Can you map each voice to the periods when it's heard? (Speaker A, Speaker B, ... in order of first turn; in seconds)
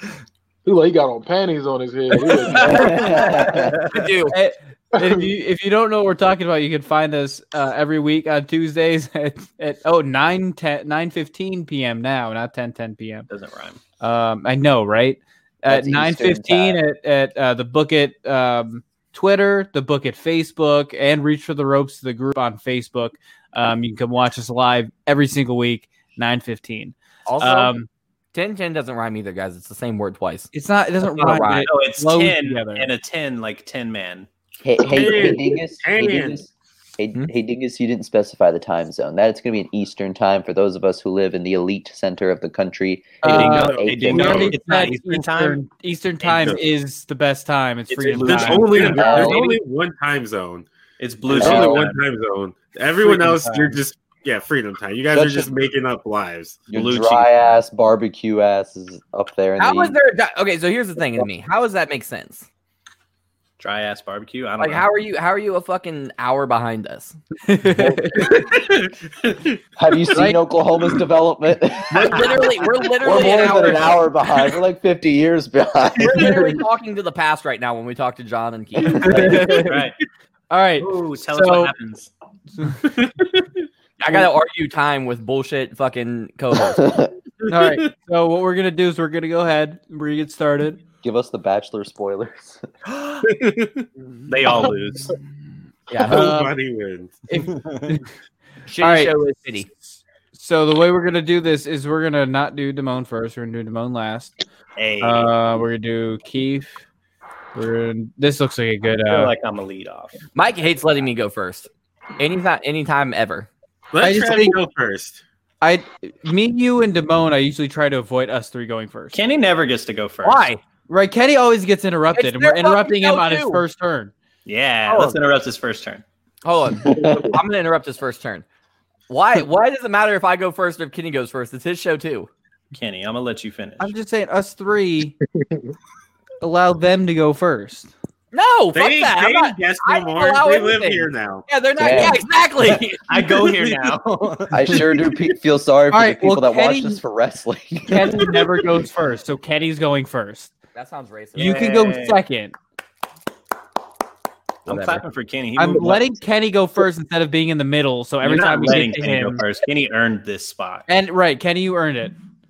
Speaker A: 0.6-3.3, 126.8-127.4
Speaker B: 2.2-4.1, 13.3-13.8, 31.6-34.3, 43.2-45.6, 47.9-49.6, 51.0-52.0, 56.7-57.4, 63.6-64.8, 68.0-68.7, 71.9-72.6, 79.3-80.0, 80.8-82.1, 94.3-95.1, 97.4-98.0, 104.8-105.3, 109.0-110.2, 119.1-120.5, 124.4-126.0, 132.7-133.9, 142.7-145.1, 151.3-152.2, 154.7-156.1, 158.2-160.8
Speaker C: 2.7-3.8, 15.7-16.8, 34.6-44.5, 48.8-49.4, 51.4-51.8, 55.1-55.5, 56.7-60.0, 69.8-72.3, 73.0-76.5, 86.7-87.1, 91.0-92.6, 126.9-127.2, 141.8-142.2, 144.5-148.2
Speaker D: 3.9-4.4, 27.2-27.7, 28.3-31.7, 59.6-62.5, 64.6-67.2, 72.0-74.1, 76.0-79.4, 84.0-87.0, 95.9-96.4, 98.7-99.7, 110.3-113.5, 122.2-123.6, 124.9-125.2, 126.4-128.4, 129.1-132.3, 138.3-143.7, 150.7-151.7
Speaker E: 4.3-13.3, 14.0-27.9, 30.5-32.9, 43.2-49.3, 53.0-53.8, 67.5-68.4, 70.1-70.4, 78.9-79.8, 80.5-81.7, 82.6-82.9, 87.5-90.8, 96.0-96.5, 97.3-98.0, 98.8-99.1, 100.3-104.3, 105.0-106.8, 107.5-109.3, 114.0-114.6, 115.6-119.2, 120.2-124.1, 133.8-135.2, 136.4-137.9, 145.9-147.0, 147.9-150.5, 151.3-152.5, 155.6-159.4, 160.9-162.1
Speaker F: 34.9-36.4, 44.1-44.5, 46.3-46.6, 48.2-50.7, 51.3-56.7, 93.2-93.9, 96.0-97.2, 113.9-115.2, 138.7-141.4